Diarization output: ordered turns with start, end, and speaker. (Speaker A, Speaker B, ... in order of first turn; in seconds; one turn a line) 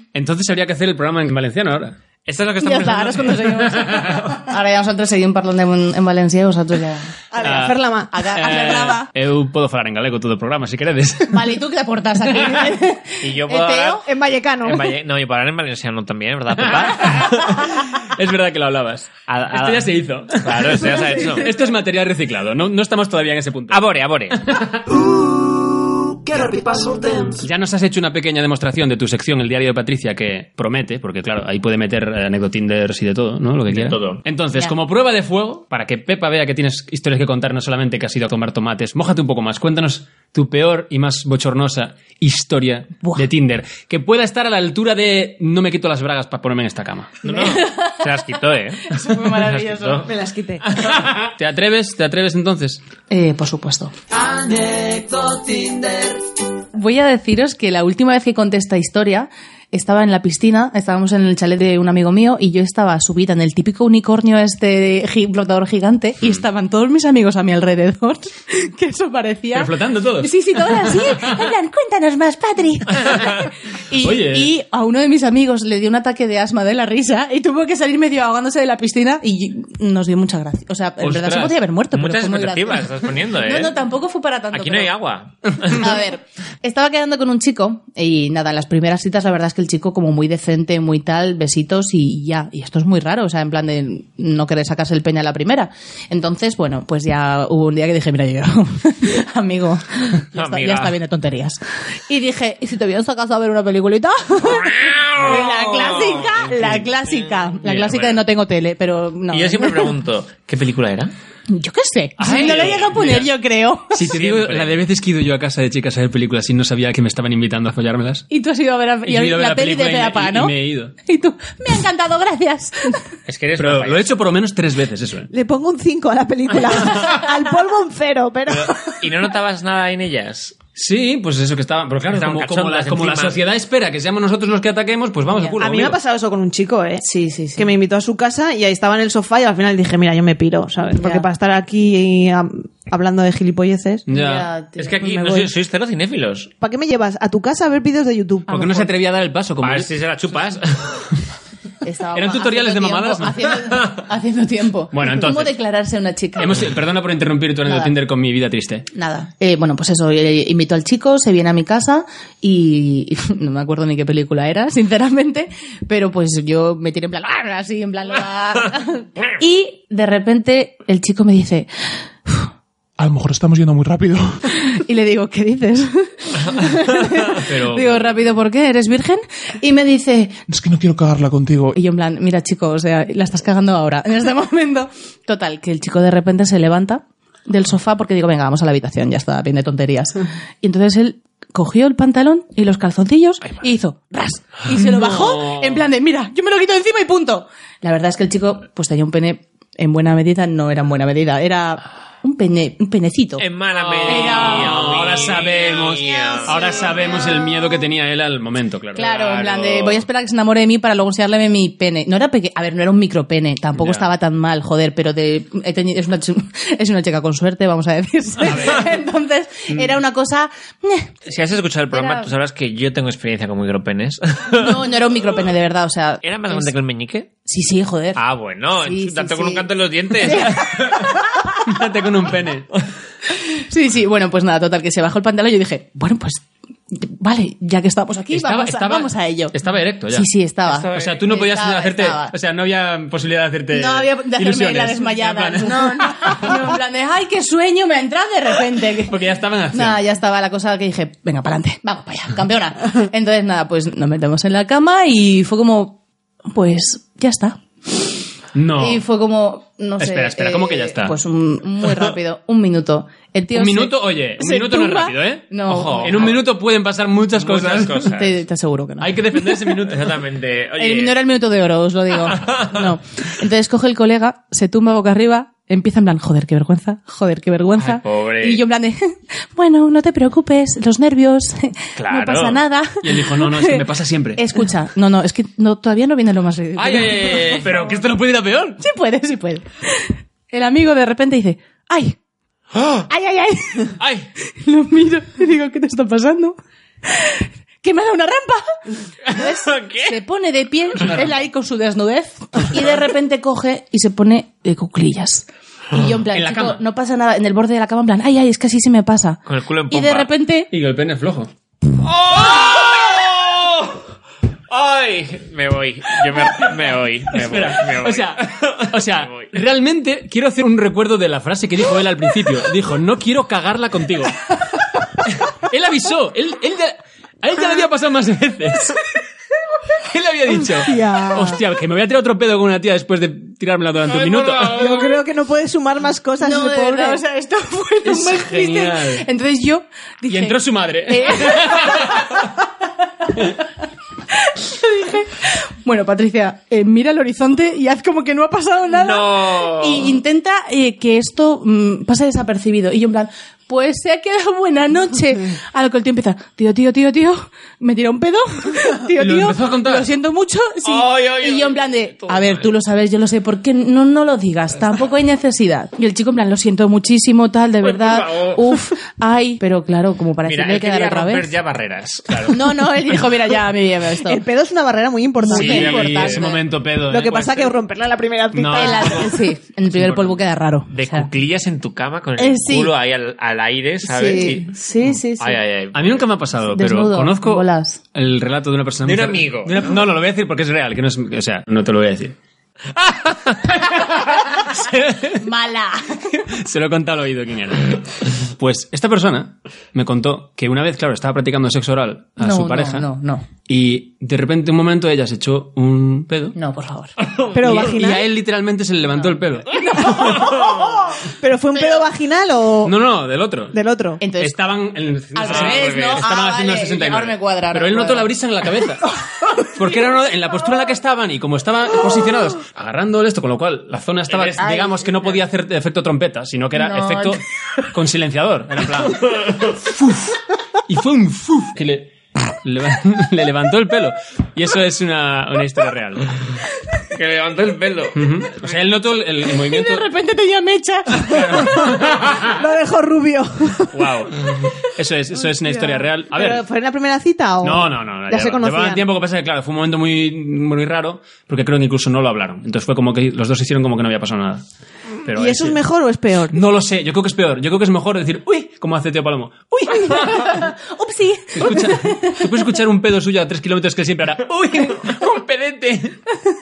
Speaker A: 0.1-2.0
Speaker B: 2.2-4.4
Speaker C: 2.6-7.1
Speaker D: 7.3-8.1
Speaker A: 7.4-11.5
Speaker C: 8.1-9.1
Speaker C: 11.3-14.0
Speaker B: 13.2-14.0
Speaker D: 14.0-14.9
Speaker B: 14.6-17.6
Speaker A: 16.7-24.7
Speaker B: 19.3-21.5
Speaker B: 23.7-24.4
Speaker E: 24.8-27.4
Speaker A: 27.4-47.2
Speaker B: 33.7-34.2
Speaker B: 47.2-50.1
Speaker C: 47.2-48.0
Speaker C: 48.9-50.1
Speaker D: 50.0-50.6
Speaker B: 50.6-51.0
Speaker A: 50.9-52.8
Speaker C: 53.1-53.9
Speaker E: 54.1-56.2
Speaker C: 56.7-84.9
Speaker A: 69.5-71.5
Speaker A: 73.9-74.5
Speaker A: 81.0-81.6
Speaker B: 81.9-83.8
Speaker B: 84.5-85.9
Speaker C: 85.6-109.9
Speaker B: 100.3-101.0
Speaker B: 104.5-106.9
Speaker B: 107.6-108.2
Speaker B: 109.3-111.1
Speaker C: 111.5-114.0
Speaker A: 112.2-113.2
Speaker B: 112.2-113.2
Speaker A: 113.9-118.2
Speaker B: 114.0-114.7
Speaker C: 118.3-123.0
Speaker A: 119.0-120.9
Speaker B: 123.2-124.1
Speaker A: 123.5-125.3
Speaker D: 125.3-128.9
Speaker B: 128.5-130.6
Speaker A: 130.8-136.0
Speaker B: 132.1-133.4
Speaker D: 135.6-137.0
Speaker C: 137.0-137.7
Speaker D: 137.6-144.1
Speaker C: 140.9-141.3
Speaker A: 144.1-144.5
Speaker C: 144.1-145.5
Speaker B: 144.8-146.5
Speaker D: 146.6-148.9
Speaker A: 148.5-149.9
Speaker B: 149.6-151.1
Speaker C: 151.8-156.6
Speaker A: 152.1-153.5
Speaker A: 154.9-155.5
Speaker A: 156.4-158.9
Speaker C: 157.7-157.9
Speaker C: 158.9-172.5
Speaker F: 173.0-174.4
Speaker C: 174.5-180.4
Speaker A: 177.4-178.2
Speaker F: 180.5-181.8
Speaker C: 181.7-203.4
Speaker A: 194.7-195.8
Speaker B: 203.4-206.7
Speaker A: 203.7-210.0
Speaker C: 204.0-205.0
Speaker C: 208.9-221.1
Speaker A: 213.8-214.1
Speaker A: 218.4-218.9
Speaker B: 221.2-224.8
Speaker C: 221.9-222.3
Speaker C: 224.5-226.7
Speaker B: 226.2-227.3
Speaker C: 227.4-228.2
Speaker B: 228.2-230.9
Speaker C: 228.8-229.7
Speaker C: 230.2-231.4
Speaker A: 231.6-232.7
Speaker C: 233.3-239.5
Speaker A: 238.3-240.3
Speaker C: 240.1-242.3
Speaker B: 240.7-241.2
Speaker A: 240.9-246.6
Speaker C: 243.7-249.1
Speaker A: 249.0-250.0
Speaker C: 249.7-258.1
Speaker A: 258.5-259.0
Speaker C: 258.8-266.3
Speaker A: 260.0-261.1
Speaker A: 263.5-268.2
Speaker B: 265.7-266.4
Speaker B: 267.3-268.4
Speaker C: 268.1-269.2
Speaker A: 269.0-270.2
Speaker B: 269.8-271.2
Speaker C: 270.8-283.8
Speaker B: 272.4-272.7
Speaker B: 277.8-278.6
Speaker A: 282.0-284.4
Speaker C: 284.4-287.7
Speaker A: 286.8-288.8
Speaker B: 286.9-287.6
Speaker C: 288.8-292.2
Speaker C: 293.1-293.9
Speaker A: 294.0-294.3
Speaker C: 294.5-310.7
Speaker B: 299.3-300.1
Speaker A: 301.0-301.3
Speaker A: 306.3-306.8
Speaker B: 309.5-310.3
Speaker A: 310.7-311.5
Speaker B: 312.0-314.0
Speaker B: 314.7-319.5
Speaker A: 316.4-316.7
Speaker A: 317.3-324.6
Speaker A: 325.2-329.1
Speaker A: 329.9-335.0
Speaker D: 330.8-331.6
Speaker D: 334.6-337.2
Speaker C: 336.4-342.5
Speaker A: 338.0-339.2
Speaker A: 340.2-342.4
Speaker C: 344.3-371.5
Speaker B: 348.9-350.2
Speaker A: 359.1-360.1
Speaker B: 360.8-362.7
Speaker B: 367.8-368.8
Speaker B: 370.4-372.6
Speaker C: 372.5-374.4
Speaker D: 374.2-379.3
Speaker C: 375.4-376.5
Speaker B: 375.5-376.4
Speaker A: 375.5-377.8
Speaker A: 378.5-379.3
Speaker C: 378.7-381.3
Speaker A: 380.0-380.3
Speaker B: 380.9-384.7
Speaker C: 382.4-382.9
Speaker C: 384.1-385.6
Speaker D: 384.1-384.6
Speaker B: 385.4-386.2
Speaker A: 385.9-392.4
Speaker C: 386.7-388.0
Speaker B: 389.0-389.9
Speaker B: 392.9-393.6
Speaker A: 393.9-395.4
Speaker C: 395.3-396.4
Speaker A: 396.4-403.1
Speaker C: 402.4-403.4
Speaker A: 403.7-406.6
Speaker C: 406.5-407.1
Speaker B: 407.2-407.5
Speaker D: 407.5-408.2
Speaker A: 407.5-410.0
Speaker C: 409.7-410.3
Speaker B: 410.1-411.0
Speaker D: 410.1-412.9
Speaker A: 412.8-413.8
Speaker D: 413.7-414.2
Speaker C: 414.2-414.6
Speaker A: 414.4-436.3
Speaker C: 415.3-418.3
Speaker B: 415.4-416.2
Speaker B: 424.3-425.1
Speaker C: 426.8-427.4
Speaker B: 429.1-429.7
Speaker B: 437.1-438.7
Speaker A: 438.1-440.1
Speaker C: 439.6-441.8
Speaker A: 441.1-442.4
Speaker D: 441.8-444.0
Speaker A: 443.9-446.6
Speaker D: 445.8-449.0
Speaker A: 447.6-454.6
Speaker A: 455.2-455.8
Speaker D: 455.3-456.6
Speaker A: 456.5-460.7
Speaker C: 460.1-462.4
Speaker A: 461.5-466.2